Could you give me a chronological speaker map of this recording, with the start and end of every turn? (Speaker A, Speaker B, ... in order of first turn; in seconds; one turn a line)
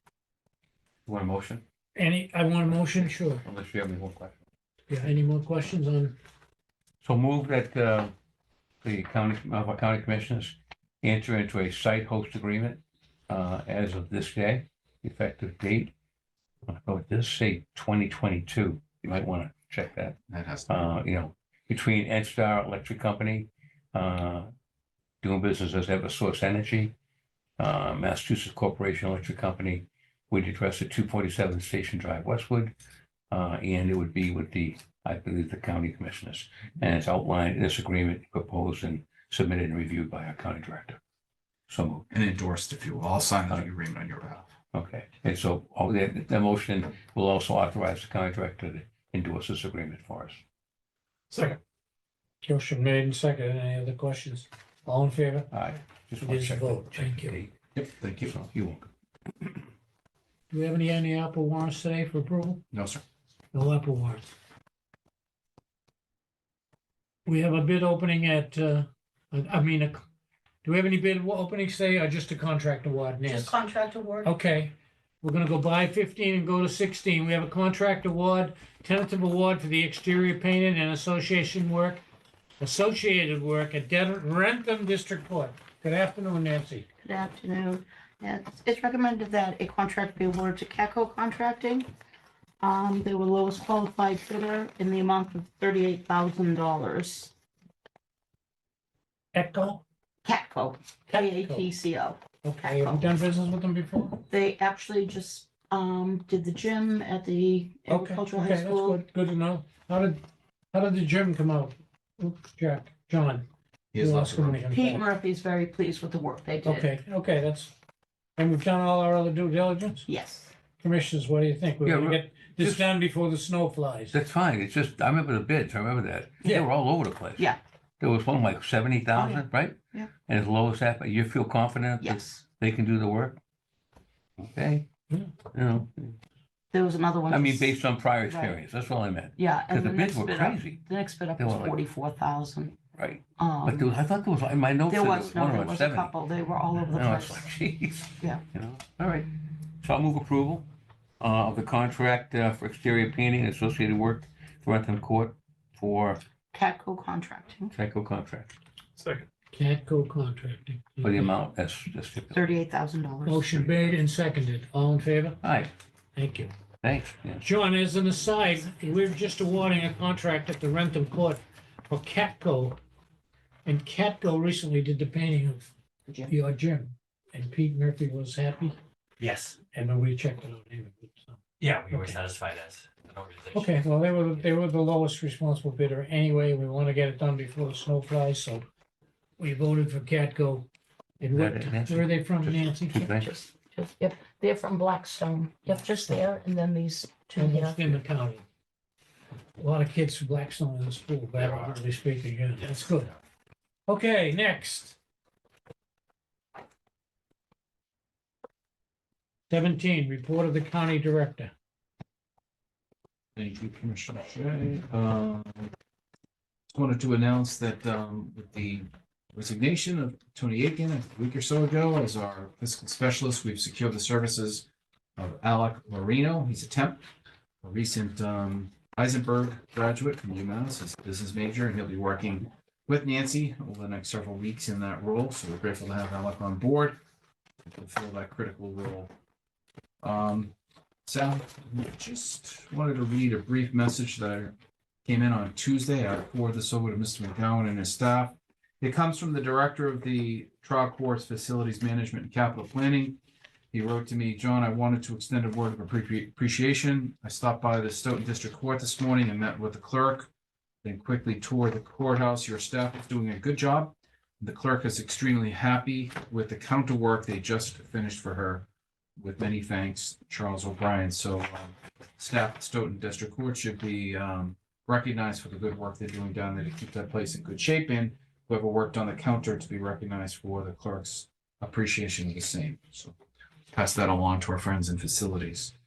Speaker A: 1.1-1.6
Speaker B: 1.9-3.4
Speaker A: 2.7-4.4
Speaker B: 4.9-6.2
Speaker A: 7.0-8.1
Speaker A: 8.8-15.9
Speaker A: 16.7-20.2
Speaker C: 20.3-20.7
Speaker A: 20.7-24.5
Speaker A: 25.2-26.9
Speaker A: 27.6-32.7
Speaker A: 33.3-41.0
Speaker A: 41.7-42.0
Speaker C: 42.1-44.5
Speaker A: 44.7-50.4
Speaker B: 52.4-55.5
Speaker A: 55.5-57.5
Speaker B: 56.2-57.4
Speaker C: 57.7-58.3
Speaker A: 58.2-58.9
Speaker B: 60.5-62.6
Speaker C: 62.7-63.0
Speaker B: 63.5-64.2
Speaker B: 67.2-70.0
Speaker B: 70.6-73.5
Speaker D: 73.2-74.3
Speaker B: 74.2-82.0
Speaker B: 82.6-86.9
Speaker D: 87.0-91.9
Speaker D: 92.6-97.3
Speaker B: 99.3-99.8
Speaker D: 100.2-103.0
Speaker B: 101.1-101.7
Speaker B: 102.4-104.2
Speaker D: 104.3-109.0
Speaker B: 107.9-110.2
Speaker B: 110.7-115.0
Speaker C: 113.9-114.6
Speaker D: 114.7-116.9
Speaker B: 116.6-117.7
Speaker B: 118.4-120.1
Speaker D: 120.1-120.5
Speaker B: 120.8-124.2
Speaker A: 121.8-122.9
Speaker A: 124.1-133.4
Speaker D: 129.1-130.1
Speaker D: 132.0-132.4
Speaker A: 134.4-134.9
Speaker A: 135.5-136.2
Speaker D: 136.7-138.6
Speaker A: 137.3-140.8
Speaker D: 139.4-142.8
Speaker A: 141.4-141.8
Speaker A: 143.0-146.2
Speaker D: 143.4-143.9
Speaker D: 144.9-147.5
Speaker A: 146.9-149.3
Speaker A: 149.8-150.7
Speaker A: 151.2-156.2
Speaker D: 156.5-157.7
Speaker A: 157.7-158.5
Speaker B: 159.5-161.3
Speaker A: 161.0-162.5
Speaker D: 162.3-163.4
Speaker B: 163.2-165.4
Speaker A: 163.5-164.0
Speaker A: 165.4-165.7
Speaker B: 166.2-166.5
Speaker A: 166.8-167.5
Speaker B: 167.4-172.8
Speaker B: 173.7-175.7
Speaker B: 176.3-178.8
Speaker E: 179.2-179.6
Speaker B: 179.6-182.2
Speaker E: 181.6-183.7
Speaker B: 183.5-188.7
Speaker B: 189.4-190.7
Speaker B: 191.2-193.0
Speaker A: 191.3-193.3
Speaker D: 193.0-197.9
Speaker B: 197.4-198.4
Speaker B: 199.6-203.1
Speaker B: 203.9-205.0
Speaker B: 209.5-211.5
Speaker C: 213.4-215.7
Speaker C: 216.7-224.7
Speaker C: 225.2-227.1
Speaker C: 227.6-237.0
Speaker C: 237.7-239.1
Speaker C: 240.0-240.5
Speaker C: 241.1-253.2
Speaker C: 253.7-260.3
Speaker C: 260.8-283.1
Speaker C: 283.7-285.7